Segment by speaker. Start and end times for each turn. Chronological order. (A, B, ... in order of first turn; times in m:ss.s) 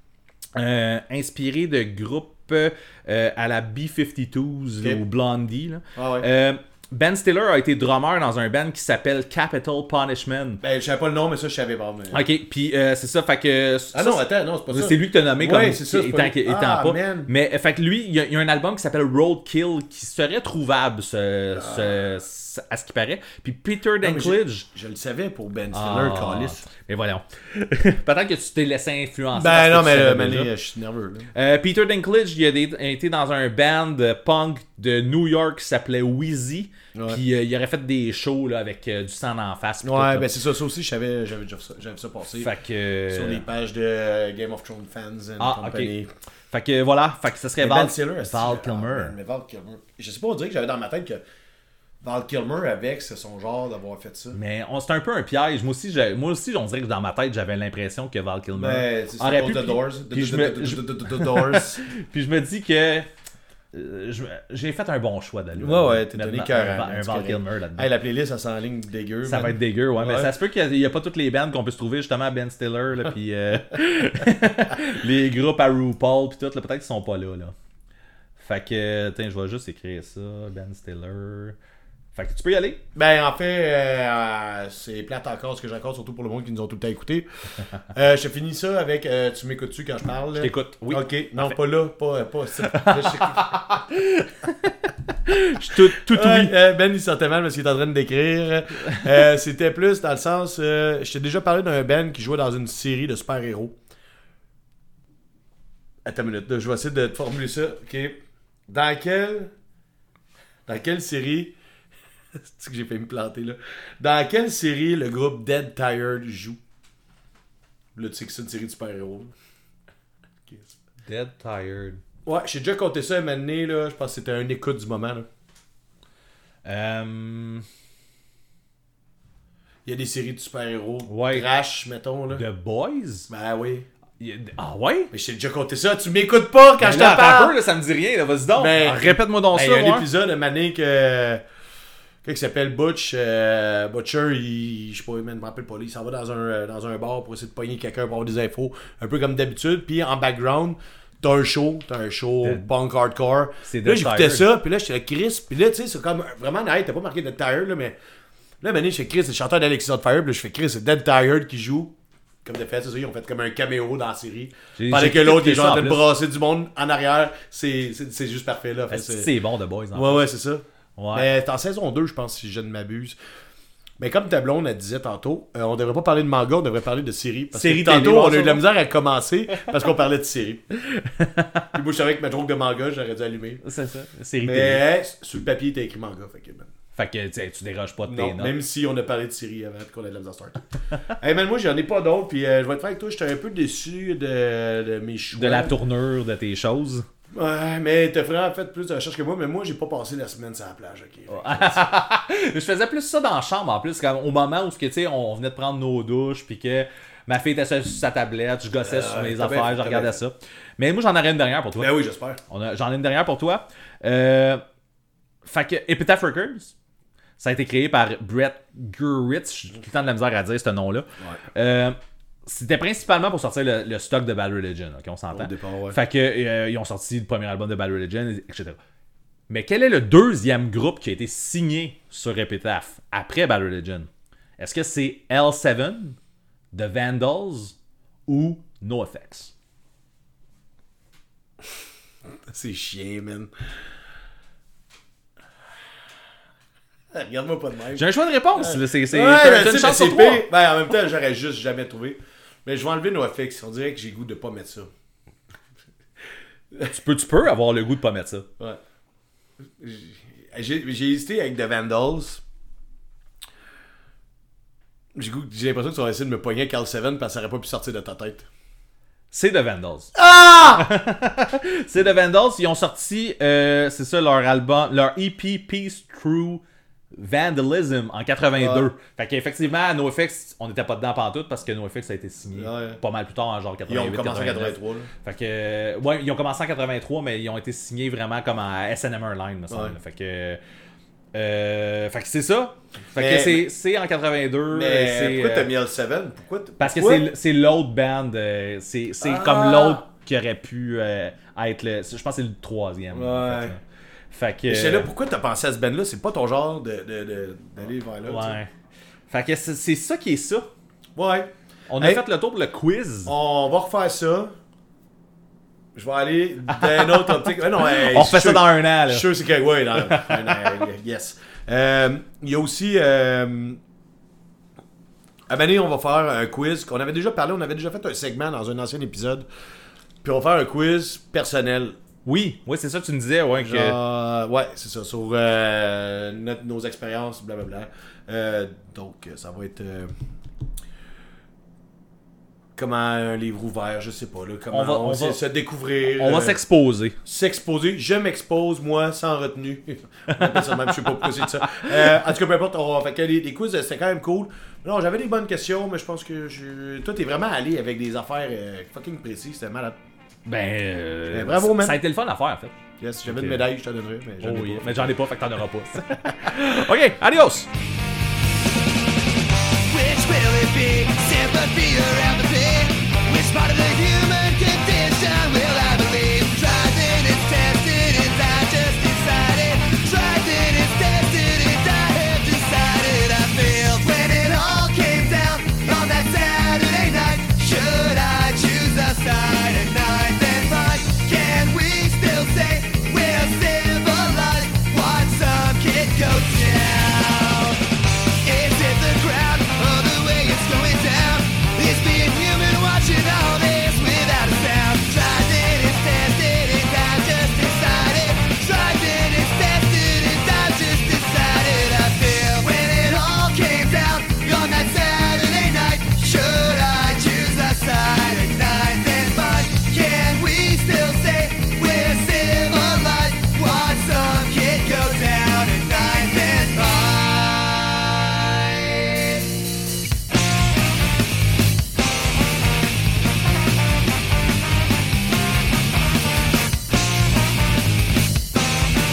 0:00.6-0:10.6 A
0:06.0-0:06.3 B
0:10.6-0:12.3 B
0:12.1-0:24.7 A
0:13.9-0:17.3 B
0:21.5-0:22.0 B
0:24.0-0:26.6 B
0:25.7-0:30.5 A
0:29.3-0:31.3 B
0:31.3-0:40.3 A
0:37.0-0:37.2 B
0:39.8-0:42.5 B
0:42.4-0:43.4 A
0:43.1-0:46.1 B
0:45.4-0:45.9 A
0:46.5-0:49.2 A
0:47.6-0:51.2 B
0:52.0-0:54.4 B
0:54.3-1:03.1 A
0:58.5-1:01.8 B
1:03.7-1:07.9 A
1:05.6-1:10.3 B
1:09.2-1:17.6 A
1:18.4-1:21.6 A
1:22.1-1:22.8 A
1:23.0-1:27.3 B
1:27.9-1:33.6 B
1:30.4-1:31.5 A
1:32.6-1:36.5 A
1:36.0-1:43.8 B
1:46.0-1:49.5 B
1:50.7-1:51.5 B
1:52.4-1:56.6 B
1:58.0-1:59.3 B
2:00.5-2:00.8 B
2:01.1-2:02.0 A
2:02.2-2:05.3 B
2:06.6-2:07.7 A
2:09.9-2:12.4 B
2:11.1-2:11.5 A
2:12.3-2:13.3 A
2:13.3-2:13.9 B
2:14.2-2:15.1 A
2:15.1-2:17.6 B
2:16.8-2:20.1 A
2:18.5-2:21.4 B
2:22.2-2:38.0 B
2:33.7-2:34.5 A
2:38.6-2:41.9 B
2:42.4-2:49.3 B
2:44.8-2:46.0 A
2:48.9-2:50.3 A
2:49.9-2:53.2 B
2:51.0-2:51.3 A
2:54.0-3:00.7 B
2:57.5-2:58.6 A
3:00.8-3:01.7 A
3:01.7-3:03.6 B
3:03.6-3:04.9 A
3:04.4-3:06.7 B
3:07.0-3:08.6 A
3:08.1-3:15.7 B
3:15.3-3:17.1 A
3:17.3-3:21.9 B
3:21.3-3:34.6 A
3:28.8-3:30.2 B
3:31.8-3:32.4 B
3:35.4-3:36.7 A
3:37.4-3:48.8 A
3:45.3-3:46.0 B
3:49.5-3:56.2 A
3:56.7-3:57.7 A
3:58.3-3:59.5 A
4:02.5-4:03.5 B
4:07.1-4:14.9 B
4:08.0-4:10.5 A
4:16.9-4:18.5 A
4:19.8-4:22.4 B
4:25.2-4:28.5 B
4:29.3-4:50.6 A
4:30.2-4:30.9 B
4:38.6-4:38.9 B
4:42.6-4:43.0 B
4:43.9-4:45.1 B
4:49.7-4:50.0 B
4:51.3-4:55.7 A
4:53.1-4:53.7 B
4:54.7-4:57.3 B
4:56.8-5:05.1 A
4:59.2-5:00.0 B
5:03.1-5:03.8 B
5:04.7-5:08.6 B
5:08.3-5:08.7 A
5:09.3-5:10.7 A
5:11.2-5:12.2 B
5:11.9-5:13.3 A
5:13.3-5:14.6 B
5:16.0-5:23.8 B
5:16.7-5:19.3 A
5:19.9-5:20.8 A
5:25.5-5:29.5 B
5:30.2-5:32.0 B
5:32.3-5:34.0 A
5:33.6-5:40.1 B
5:42.8-5:46.6 B
5:44.7-5:45.4 A
5:46.1-5:47.2 A
5:47.2-6:00.0 B
5:50.3-5:52.2 A
6:00.5-6:03.7 A
6:01.3-6:02.0 B
6:03.0-6:05.2 B
6:04.4-6:07.7 A
6:09.9-6:37.8 C
6:38.4-7:09.2 C